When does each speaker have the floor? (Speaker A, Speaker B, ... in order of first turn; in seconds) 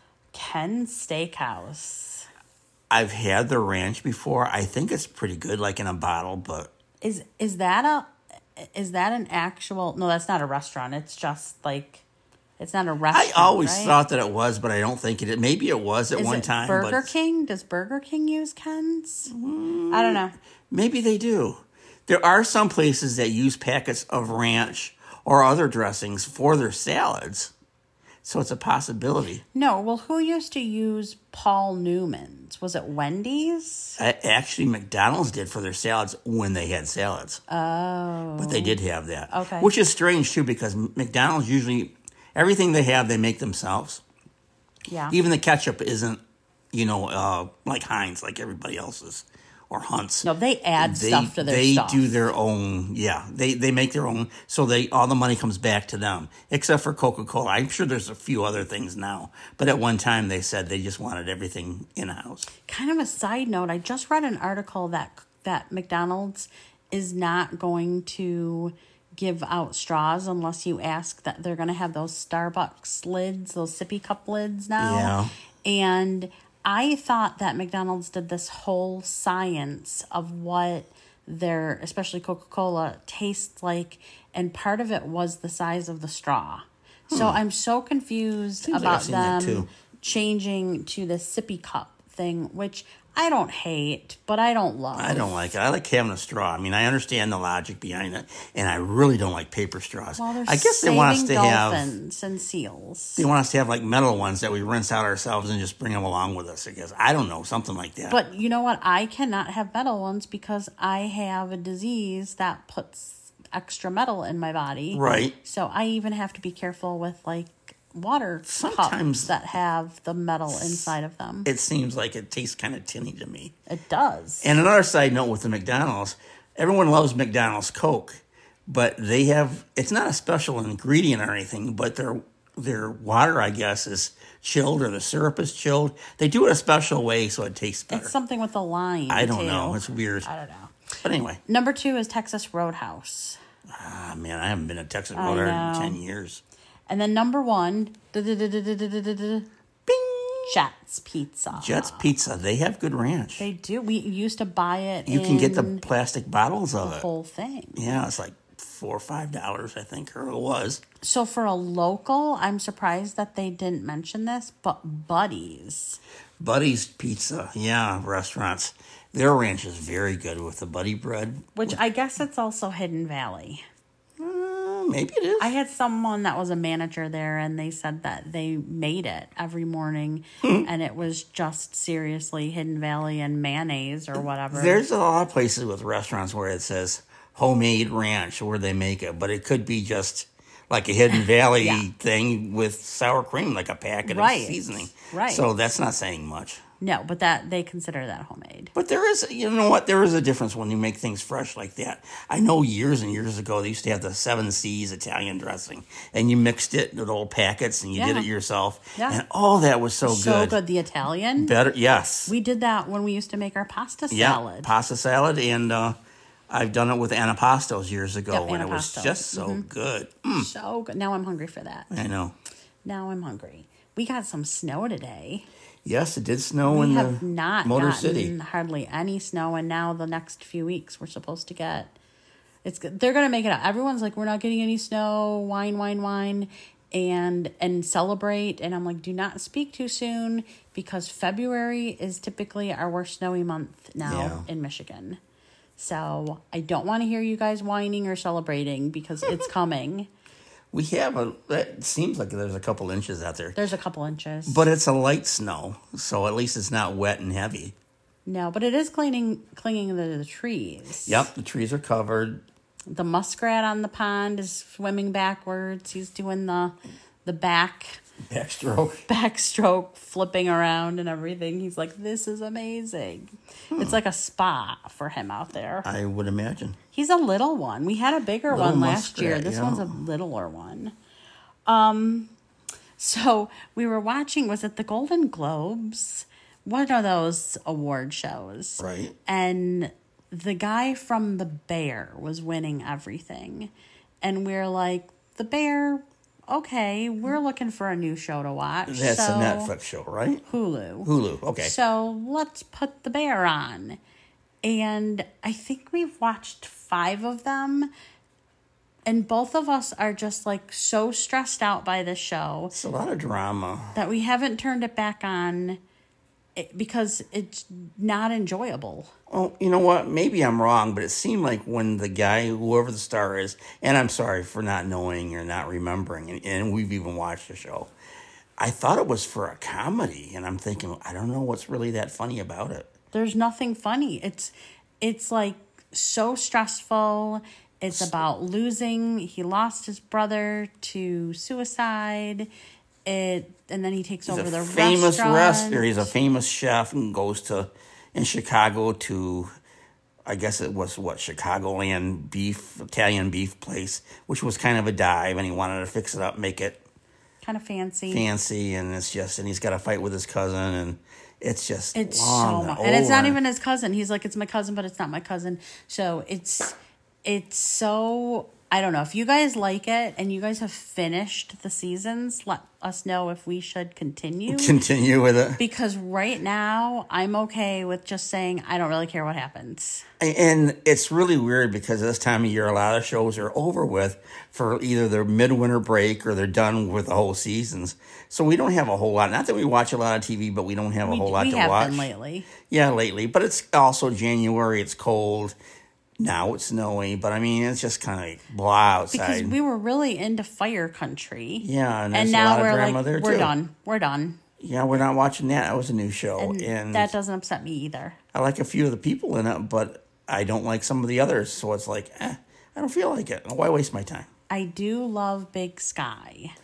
Speaker A: 0.3-2.3, 7.0-12.0, 12.6-14.0, 16.1-19.3, 19.9-20.3, 29.5-34.0, 37.5-38.8, 39.3-39.7, 44.9-45.1, 50.2-52.2, 62.7-95.5, 100.2-103.3, 108.1-121.5, 123.7-124.5, 137.9-140.7, 141.4-143.4, 145.1-146.0, 146.9-149.5, 150.5-152.1, 153.4-155.8, 156.8-157.9, 161.0-166.0, 171.5-173.6, 175.4-184.8, 191.6-191.8, 194.1-195.4, 196.8-198.7, 207.9-208.3, 208.9-209.2, 210.0-211.5, 212.2-214.7, 218.3-219.7, 220.3-221.9, 222.8-225.5, 226.7-231.9, 232.6-245.2, 245.8-250.1, 253.5-254.6, 258.2-261.3, 262.9-268.0, 269.1-275.9, 276.9-280.9, 281.7-282.3, 283.0-293.7, 294.2-299.7, 300.5-304.0, 304.6-307.9, 309.1-312.7, 313.9-315.8, 316.6-319.1, 333.1-342.5, 343.0-346.1, 357.4-358.2, 361.9-374.8, 375.6-380.1, 391.0-392.5, 399.1-404.4, 406.4-408.2, 414.5-416.5
Speaker B: 2.9-6.7, 13.1-17.1, 19.3-20.2, 20.7-27.5, 28.2-29.4, 34.0-37.4, 38.4-44.0, 45.1-46.2, 46.7-50.3, 50.8-62.5, 74.8-75.3, 87.1-87.4, 88.6-89.7, 94.9-102.0, 103.2-108.2, 114.9-115.3, 118.5-119.3, 120.5-120.9, 121.5-123.5, 124.4-138.1, 139.1-140.3, 141.0-141.4, 143.7-146.4, 149.9-150.6, 151.5-153.5, 155.1-157.1, 157.8-160.8, 166.4-171.8, 174.2-175.5, 180.4-180.7, 184.5-196.6, 198.7-210.6, 211.4-212.3, 214.1-215.9, 216.5-220.5, 221.9-222.3, 225.8-228.3, 244.0-244.4, 250.7-253.6, 254.5-257.7, 261.1-262.4, 268.2-269.1, 273.7-274.0, 275.8-276.8, 278.5-279.9, 288.8-289.1, 298.9-300.4, 301.0-301.7, 312.7-313.9, 319.3-327.9, 328.6-332.9, 337.9-338.2, 344.3-349.5, 350.2-356.8, 358.1-363.4, 374.5-375.6, 380.2-392.1, 392.7-395.6, 396.2-399.5, 401.6-403.5, 404.6-407.1, 408.3-414.3